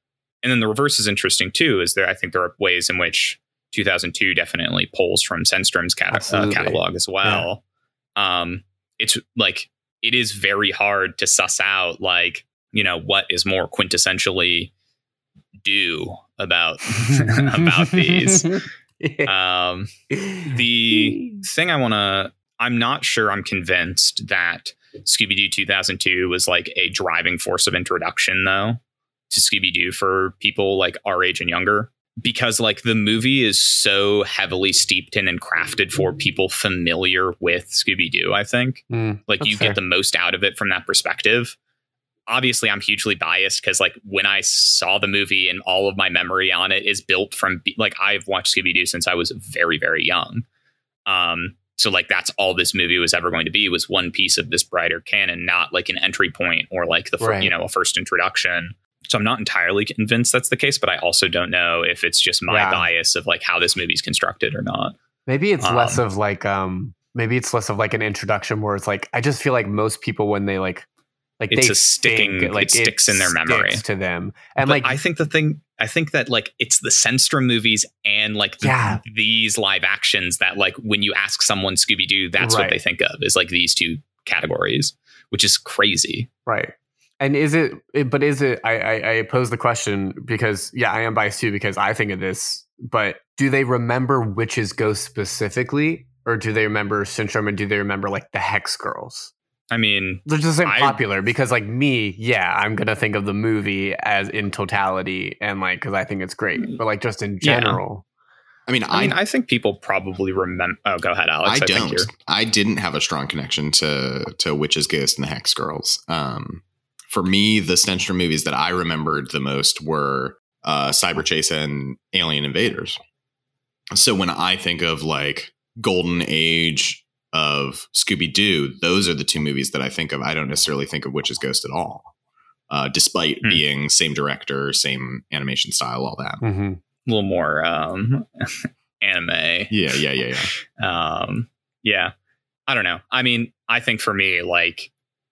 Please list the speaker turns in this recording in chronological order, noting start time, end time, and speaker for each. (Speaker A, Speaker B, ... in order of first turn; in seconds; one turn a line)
Speaker A: 0.4-7.6
Speaker B: 6.1-7.5
Speaker A: 8.2-14.7
Speaker A: 15.6-18.6
Speaker B: 16.9-19.3
Speaker A: 19.2-41.5
Speaker B: 20.1-21.4
Speaker B: 38.9-39.8
Speaker A: 42.3-50.4
Speaker A: 51.1-64.9
Speaker B: 57.2-57.5
Speaker B: 62.5-62.9
Speaker B: 65.3-70.8
Speaker A: 65.6-66.0
Speaker B: 71.4-75.0
Speaker A: 71.5-73.8
Speaker A: 74.6-86.3
Speaker B: 78.6-79.0
Speaker B: 82.4-82.8
Speaker B: 86.5-99.3
Speaker A: 99.7-101.0
Speaker B: 100.2-108.0
Speaker A: 107.4-107.8
Speaker C: 108.7-109.2
Speaker A: 108.9-112.1
Speaker C: 111.4-123.0
Speaker C: 123.9-132.1
Speaker C: 132.7-136.4
Speaker B: 136.4-136.8
Speaker A: 137.1-139.7
Speaker C: 139.7-140.5
Speaker A: 140.8-142.1
Speaker A: 142.7-144.9